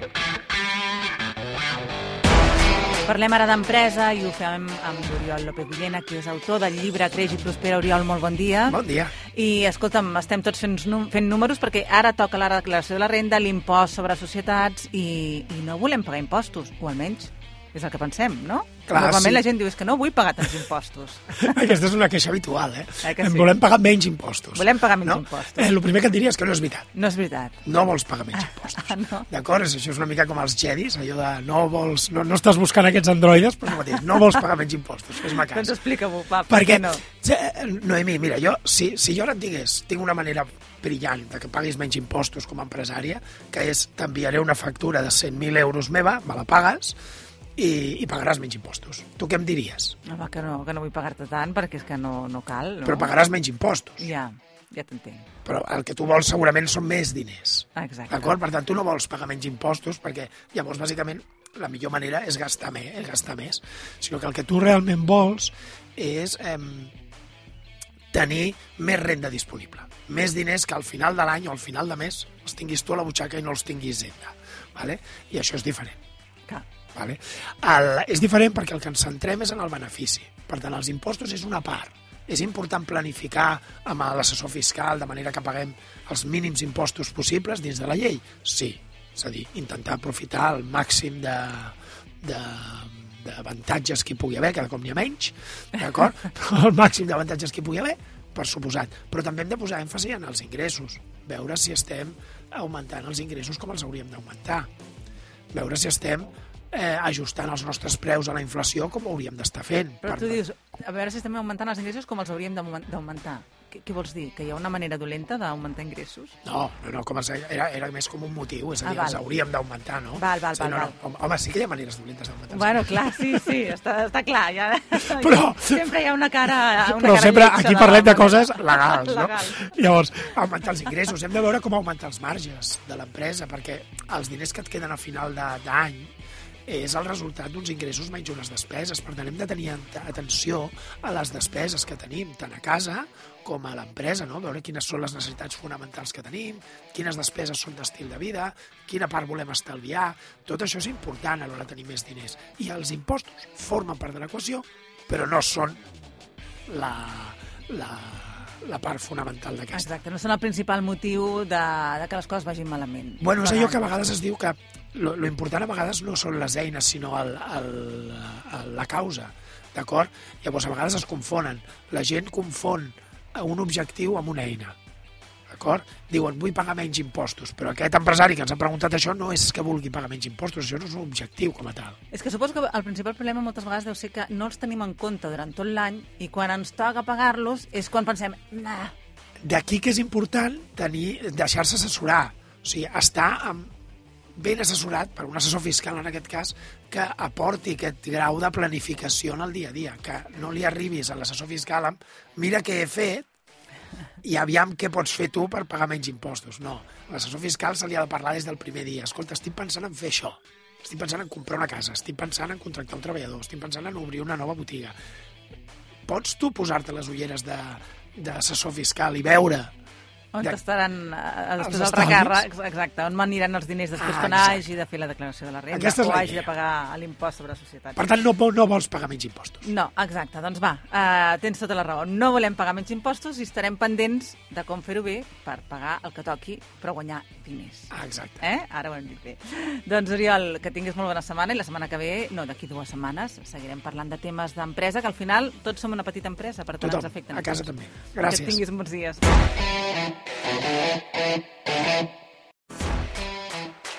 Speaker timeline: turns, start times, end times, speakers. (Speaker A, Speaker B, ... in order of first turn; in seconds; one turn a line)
Speaker A: 3.0-21.6
Speaker B: 8.7-9.1
Speaker B: 18.9-19.4
Speaker B: 21.4-26.9
Speaker A: 23.0-23.5
Speaker A: 24.6-25.7
Speaker A: 26.9-27.6
Speaker B: 27.6-35.8
Speaker A: 28.4-29.3
Speaker A: 35.3-37.0
Speaker B: 36.5-47.0
Speaker B: 47.6-50.0
Speaker A: 50.0-53.1
Speaker B: 52.9-54.1
Speaker A: 54.0-55.3
Speaker B: 55.5-66.9
Speaker A: 57.8-58.4
Speaker B: 68.1-76.0
Speaker B: 77.0-104.7
Speaker B: 105.5-110.4
Speaker A: 110.0-116.3
Speaker B: 116.5-123.5
Speaker A: 118.8-119.2
Speaker A: 120.2-120.9
Speaker A: 122.5-129.8
Speaker B: 125.0-125.9
Speaker B: 126.8-136.1
Speaker B: 136.7-155.8
Speaker B: 156.7-159.9
Speaker A: 159.7-163.8
Speaker B: 163.2-174.8
Speaker B: 175.5-182.0
Speaker A: 182.1-188.9
Speaker B: 189.4-193.7
Speaker B: 194.4-203.3
Speaker B: 204.2-214.9
Speaker B: 216.1-219.7
Speaker A: 220.3-228.0
Speaker B: 221.6-222.4
Speaker B: 224.0-224.6
Speaker B: 225.7-226.5
Speaker B: 228.0-229.7
Speaker A: 229.6-247.7
Speaker B: 237.9-238.4
Speaker B: 246.8-248.6
Speaker A: 248.2-249.2